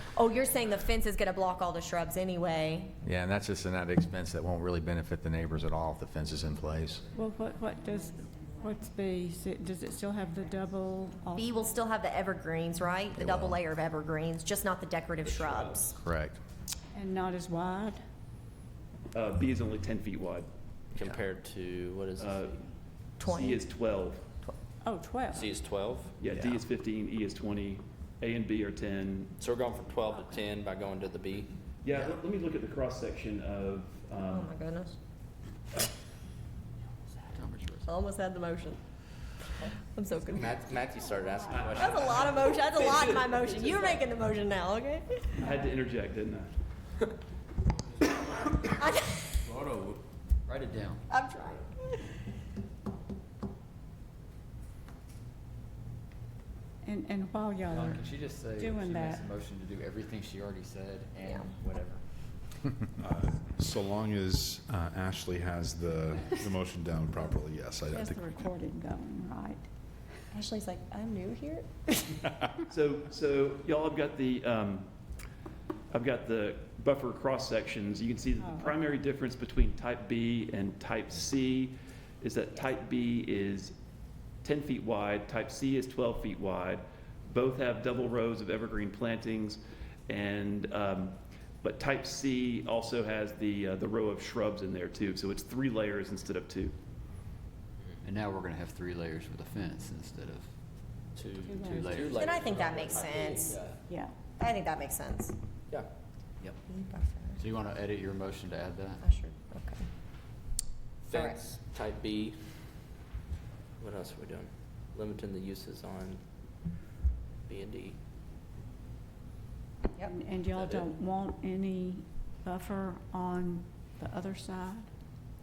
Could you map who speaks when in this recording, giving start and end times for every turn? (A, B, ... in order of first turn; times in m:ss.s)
0:00.1-0:02.9 A
0:03.0-0:07.0 B
0:07.1-0:11.5 C
0:11.4-0:16.0 A
0:13.2-0:13.6 B
0:15.2-0:15.8 D
0:16.0-0:16.4 B
0:16.9-0:18.0 C
0:19.1-0:20.5 E
0:20.9-0:22.6 D
0:22.2-0:22.5 E
0:23.2-0:23.6 A
0:23.2-0:24.2 E
0:24.8-0:25.5 C
0:25.3-0:26.2 D
0:26.2-0:29.3 E
0:29.4-0:31.5 D
0:31.8-0:34.5 E
0:34.3-0:34.9 A
0:37.4-0:37.8 F
0:37.8-0:38.8 A
0:39.6-0:40.6 A
0:40.4-0:44.0 D
0:41.5-0:42.4 E
0:41.7-0:45.4 A
0:45.4-0:46.5 E
0:48.6-0:49.4 A
0:49.4-0:50.0 F
0:50.5-0:51.0 F
0:51.1-0:52.2 A
0:56.8-0:59.3 C
0:57.7-1:02.0 F
1:01.2-1:01.5 A
1:03.0-1:08.5 G
1:07.9-1:09.7 C
1:10.3-1:12.2 A
1:12.7-1:14.9 E
1:15.9-1:23.7 E
1:18.4-1:18.8 C
1:24.4-1:36.7 E
1:38.1-1:40.4 F
1:41.2-1:43.8 D
1:41.4-1:42.3 C
1:42.0-1:43.6 A
1:43.4-1:44.1 C
1:44.4-1:45.4 A
1:46.7-1:47.4 A
1:47.4-1:49.0 F
1:49.0-1:49.9 A
1:51.0-1:52.4 D
1:51.1-1:51.4 A
1:53.8-1:56.2 D
1:57.5-1:58.0 D
2:00.0-2:04.9 C
2:00.5-2:00.9 D